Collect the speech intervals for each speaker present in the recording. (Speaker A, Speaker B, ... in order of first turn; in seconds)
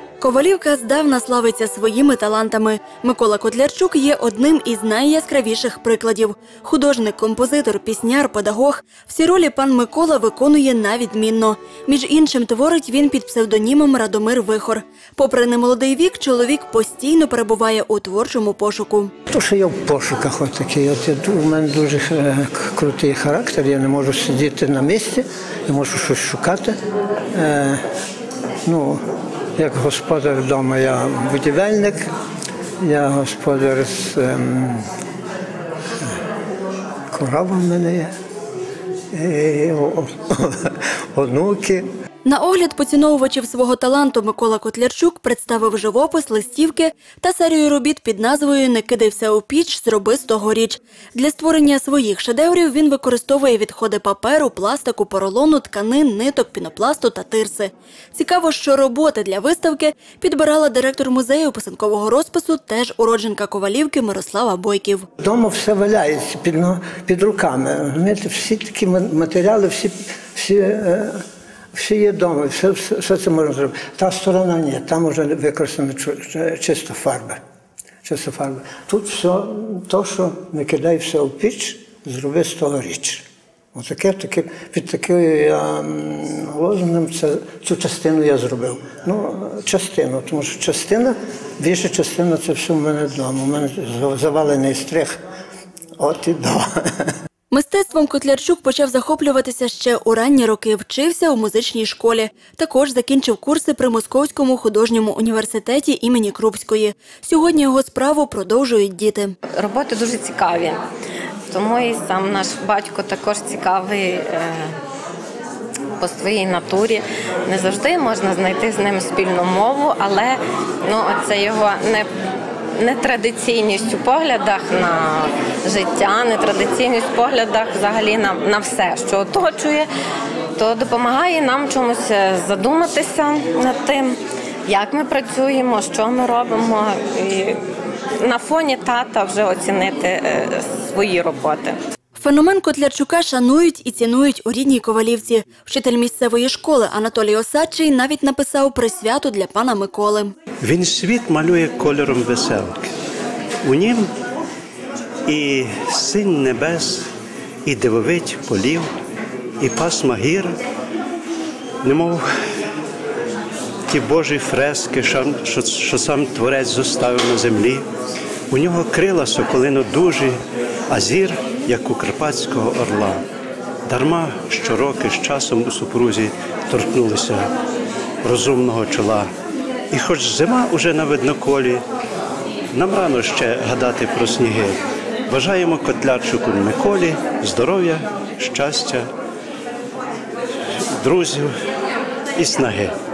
Speaker A: 0.2-19.1, 42.2-65.1, 97.5-109.3, 142.2-150.3
Speaker B: 19.3-26.8, 27.3-27.8, 28.6-29.0, 29.6-32.1, 32.8-34.9, 37.1-38.1, 39.1-41.9, 65.2-71.2, 71.7-77.4, 78.0-83.2, 83.7-95.2, 96.0-97.1
Speaker C: 109.5-110.8, 111.5-114.7, 116.0-122.1, 122.8-129.9, 130.6-137.6, 138.2-141.8
Speaker D: 150.6-152.9, 153.6-154.1, 155.2-157.1, 157.6-158.9, 159.6-160.6, 161.8-162.3, 163.9-167.8, 168.5-170.4, 170.9-173.2, 173.9-177.5, 178.2-179.3, 179.9-181.8, 182.7-189.1, 191.0-191.5, 192.3-192.9